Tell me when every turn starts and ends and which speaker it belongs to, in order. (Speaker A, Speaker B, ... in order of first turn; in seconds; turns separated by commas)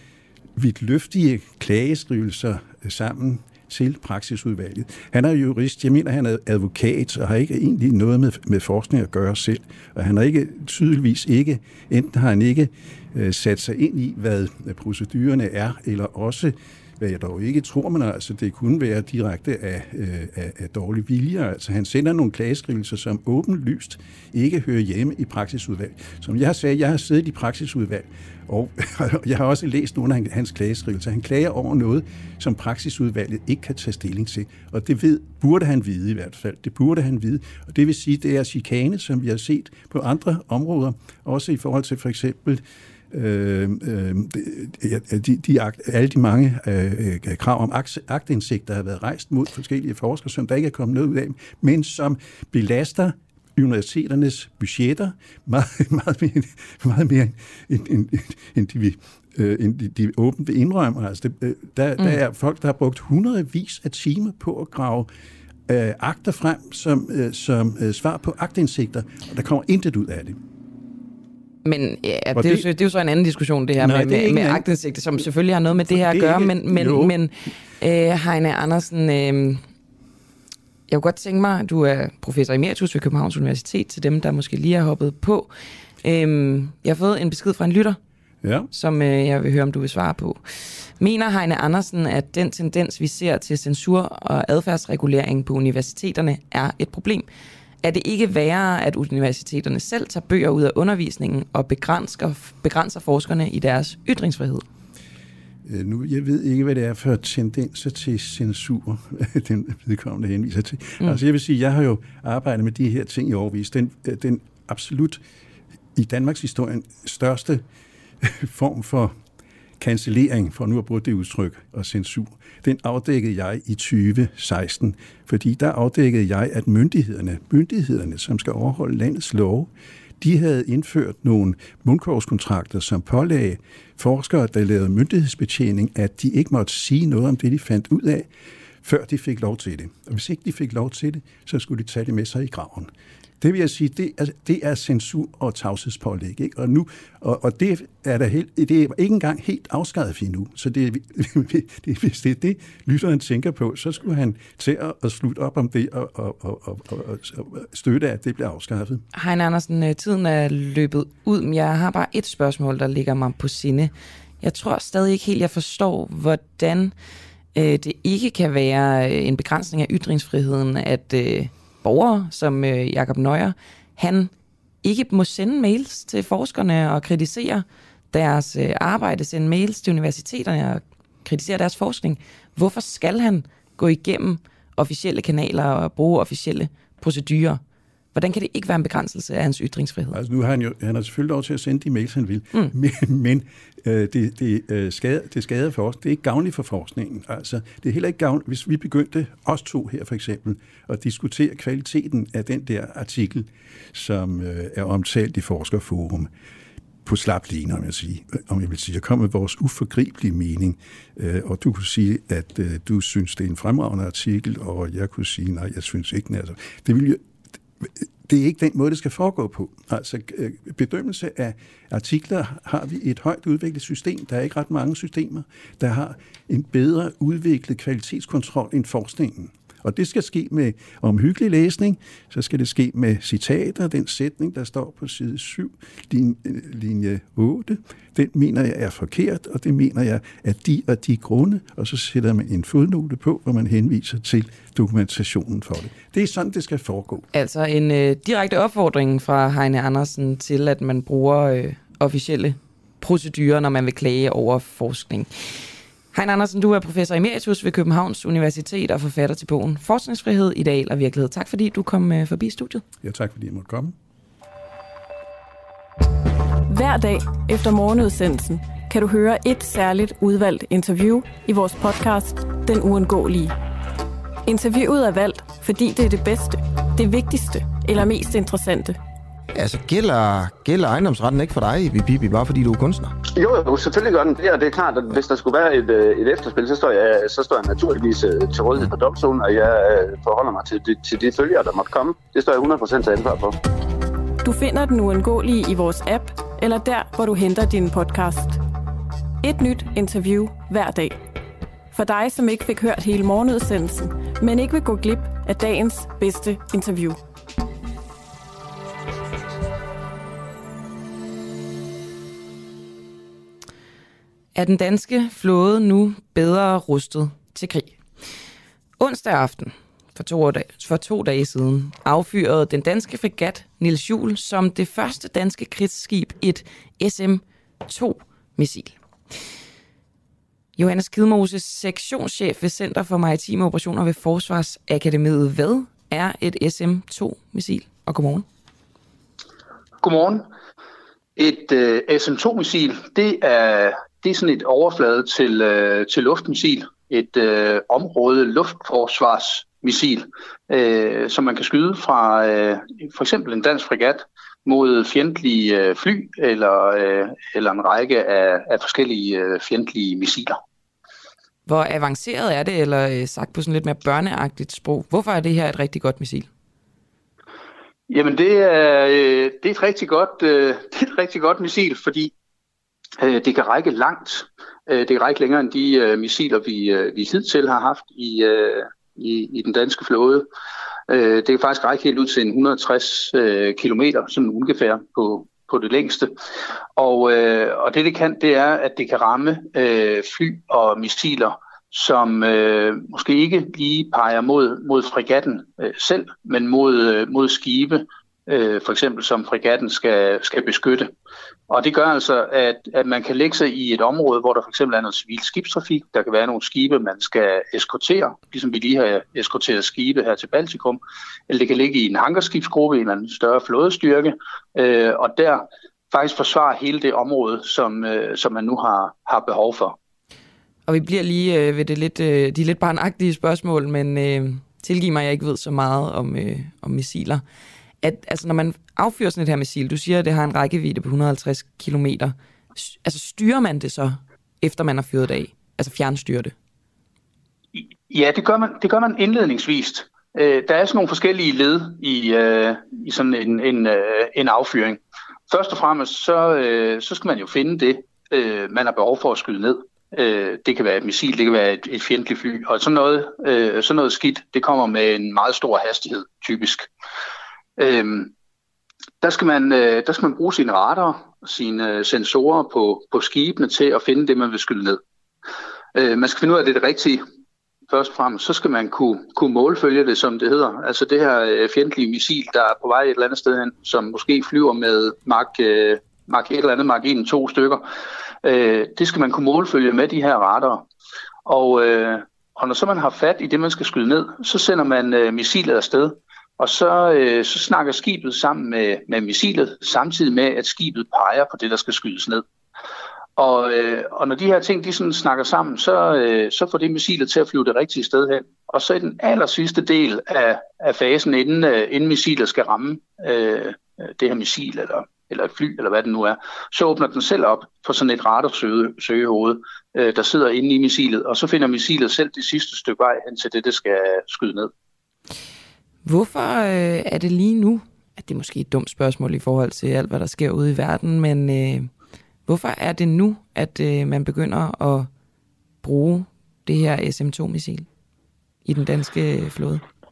Speaker A: 0.6-65.1, Speaker A: 65.7-70.4, Speaker B: 71.6-79.6, Speaker A: 72.3-72.7, Speaker A: 73.8-74.7, Speaker A: 75.8-77.1, Speaker B: 80.9-85.5, Speaker B: 86.0-88.0, Speaker A: 88.4-88.7, Speaker B: 88.7-90.4, Speaker B: 91.0-97.3, Speaker B: 97.8-104.6, Speaker A: 105.7-115.2, Speaker A: 116.0-117.6, Speaker A: 118.2-119.1, Speaker A: 119.8-138.3, Speaker A: 138.8-142.9, Speaker A: 143.4-159.0, Speaker B: 159.1-166.9, Speaker B: 167.5-174.3, Speaker B: 174.8-187.6, Speaker B: 188.1-190.2, Speaker A: 190.1-206.3, Speaker A: 207.0-217.2, Speaker A: 217.8-247.2, Speaker B: 247.3-255.6, Speaker B: 256.1-262.8, Speaker A: 263.0-263.9, Speaker C: 266.7-273.6, Speaker C: 274.4-279.0, Speaker D: 279.5-283.1, Speaker E: 283.3-293.6, Speaker C: 294.4-298.6, Speaker C: 299.4-301.2, Speaker C: 301.9-307.2, Speaker B: 314.5-318.0, Speaker B: 319.0-328.9, Speaker B: 330.8-338.4, Speaker F: 340.0-340.5, Speaker F: 341.4-360.6, Speaker B: 361.7-366.5, Speaker F: 368.1-372.3, Speaker F: 373.2-380.5, Speaker F: 381.1-386.3, Speaker F: 386.9-401.1, Speaker F: 401.7-419.9, Speaker B: 420.9-427.4, Speaker B: 428.0-436.5, Speaker F: 437.7-456.9, Speaker F: 457.8-458.3, Speaker F: 459.2-465.0, Speaker F: 465.9-467.2, Speaker F: 467.9-477.9, Speaker F: 478.4-480.9, Speaker F: 481.4-492.4, Speaker F: 493.4-514.7, Speaker B: 516.0-521.9, Speaker B: 522.5-525.1, Speaker B: 525.8-527.9, Speaker B: 528.6-529.8